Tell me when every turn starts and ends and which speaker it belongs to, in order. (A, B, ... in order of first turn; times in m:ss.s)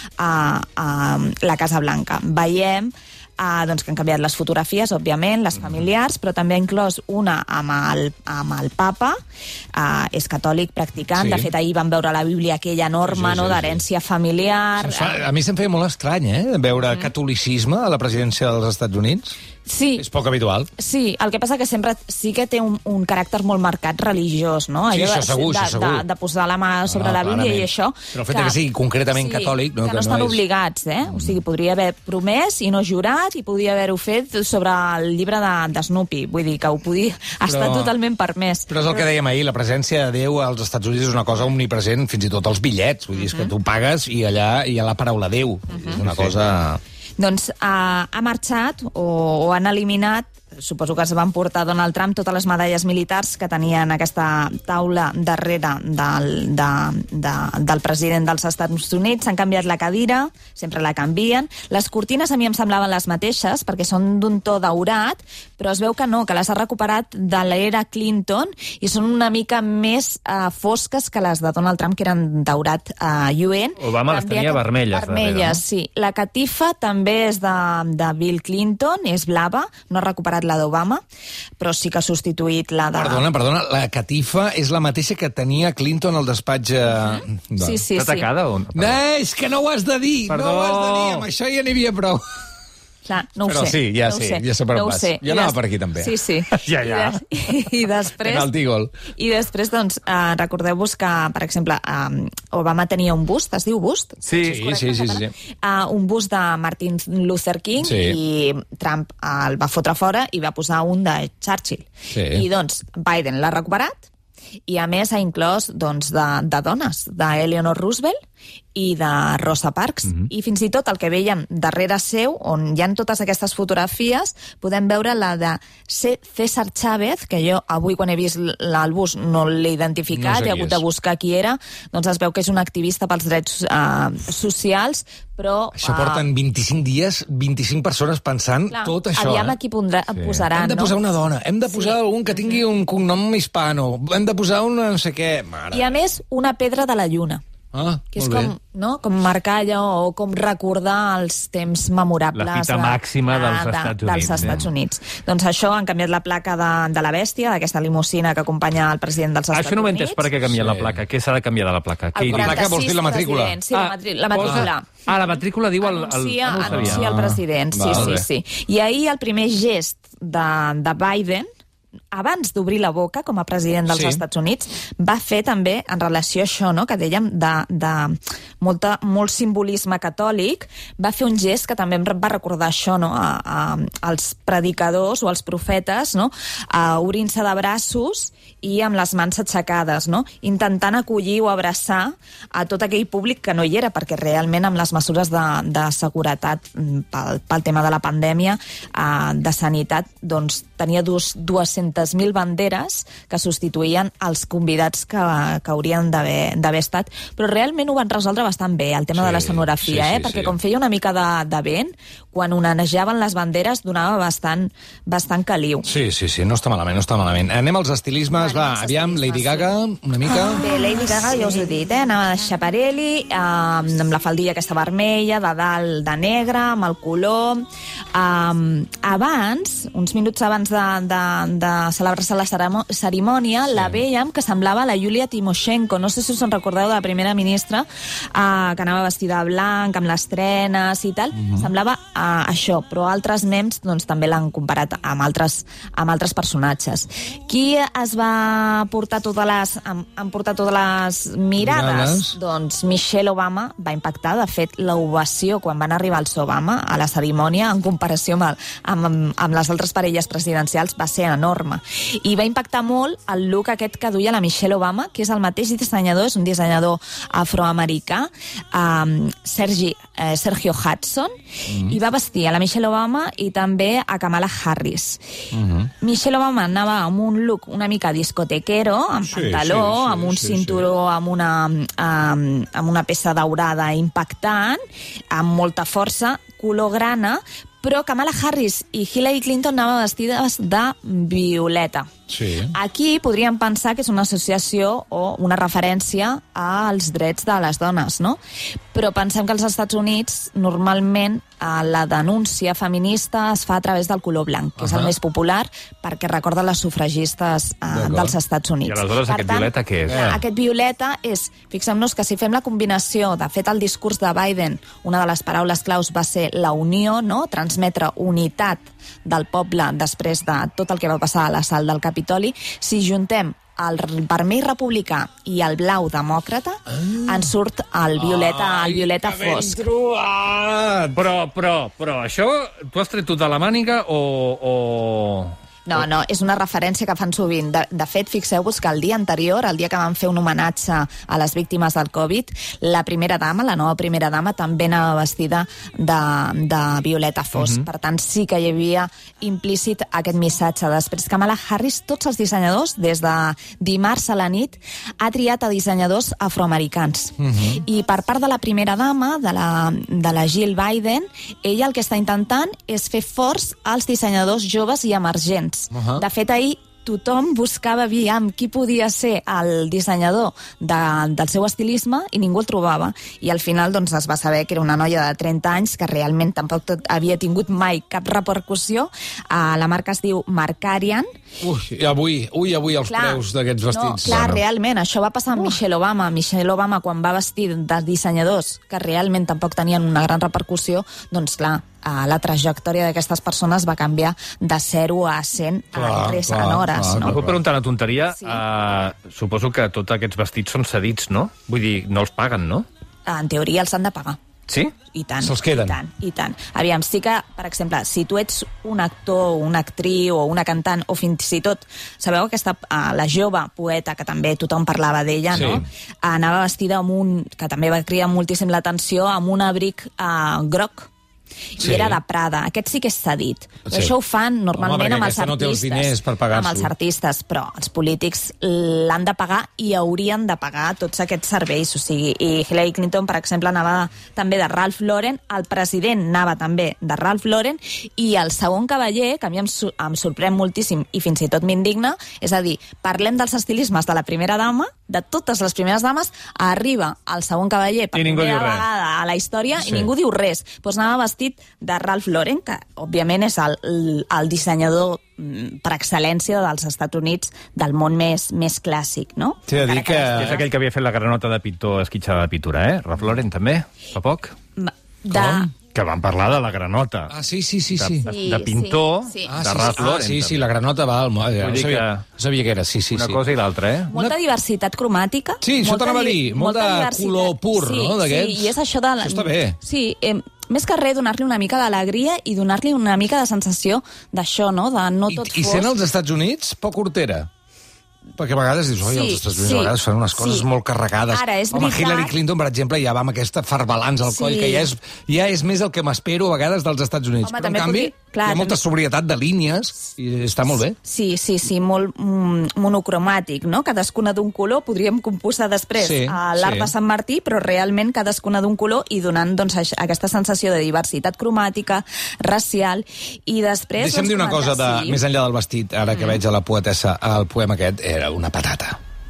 0:00.2-0:09.2 A
0:09.7-0:15.2 A
0:11.2-0:11.5 B
0:13.1-0:13.8 B
0:14.8-0:19.4 B
0:19.7-0:20.0 A
0:20.0-0:20.7 B
0:20.8-0:28.6 A
0:24.9-0:26.0 B
0:26.9-0:30.4 B
0:29.1-0:39.0 A
0:31.1-0:31.4 B
0:37.5-0:37.9 B
0:38.7-0:46.8 B
0:43.2-0:43.5 A
0:45.7-0:46.0 A
0:47.2-1:21.0 A
1:13.8-1:15.6 C
1:21.6-1:23.2 A
1:22.9-1:27.8 B
1:27.0-1:28.3 A
1:28.0-1:29.0 C
1:28.7-1:32.2 B
1:30.3-1:31.3 C
1:33.1-1:38.5 A
1:33.4-1:36.2 B
1:36.5-1:37.2 C
1:38.2-1:38.9 B
1:39.1-1:54.1 A
1:44.2-1:44.6 C
1:44.4-1:45.3 B
1:47.8-1:48.2 B
1:52.1-1:52.4 B
1:54.7-1:58.2 A
1:58.7-2:16.2 A
2:10.1-2:10.8 B
2:15.8-2:19.6 B
2:18.7-2:21.0 A
2:20.5-2:25.9 B
2:21.7-2:22.6 A
2:25.7-2:27.4 A
2:27.7-2:28.5 B
2:28.1-2:40.3 A
2:32.4-2:34.6 C
2:39.5-2:42.6 C
2:40.5-2:41.0 B
2:42.1-2:51.5 A
2:42.3-2:43.6 B
2:43.7-2:47.1 C
2:44.4-2:44.7 B
2:46.6-2:48.3 B
2:52.1-3:35.9 A
2:53.9-2:54.2 B
3:29.2-3:30.6 B
3:35.8-3:40.7 B
3:38.4-3:39.7 A
3:40.3-4:35.2 A
4:11.6-4:12.4 B
4:31.7-4:32.0 B
4:35.5-4:35.9 B
4:36.0-4:52.1 A
4:39.3-4:40.8 B
4:52.3-4:52.7 B
4:52.7-4:58.4 A
4:58.9-5:29.9 A
5:04.8-5:05.1 B
5:07.9-5:08.3 B
5:08.8-5:10.2 C
5:10.1-5:10.4 B
5:28.2-5:31.2 B
5:31.1-5:35.6 C
5:35.9-6:21.3 A
5:47.6-5:47.9 C
5:57.4-5:57.8 B
6:05.9-6:06.2 B
6:21.6-6:24.6 B
6:23.0-6:37.4 A
6:35.9-6:37.6 B
6:37.2-6:42.9 C
6:43.3-6:44.4 A
6:44.7-6:44.9 C
6:45.1-7:01.1 A
6:45.4-6:46.0 B
6:55.5-6:55.8 B
7:01.8-7:40.6 A
7:01.8-7:02.2 B
7:03.9-7:04.1 B
7:04.7-7:06.9 B
7:28.1-7:28.8 C
7:29.8-7:30.1 B
7:39.7-7:40.6 B
7:40.3-7:44.6 C
7:44.8-7:45.7 A
7:45.3-7:47.3 C
7:47.3-7:48.3 B
7:48.0-7:50.7 C
7:48.3-7:49.8 A
7:49.5-7:53.4 B
7:51.6-7:52.2 C
7:53.1-7:54.1 C
7:54.1-8:06.0 A
7:55.6-7:59.8 B
8:05.3-8:07.5 B
8:08.4-8:21.0 B
8:09.0-8:10.7 A
8:11.3-8:12.4 A
8:14.3-8:14.9 A
8:17.4-8:18.8 A
8:21.0-8:35.2 A
8:26.0-8:26.9 B
8:34.0-8:39.0 B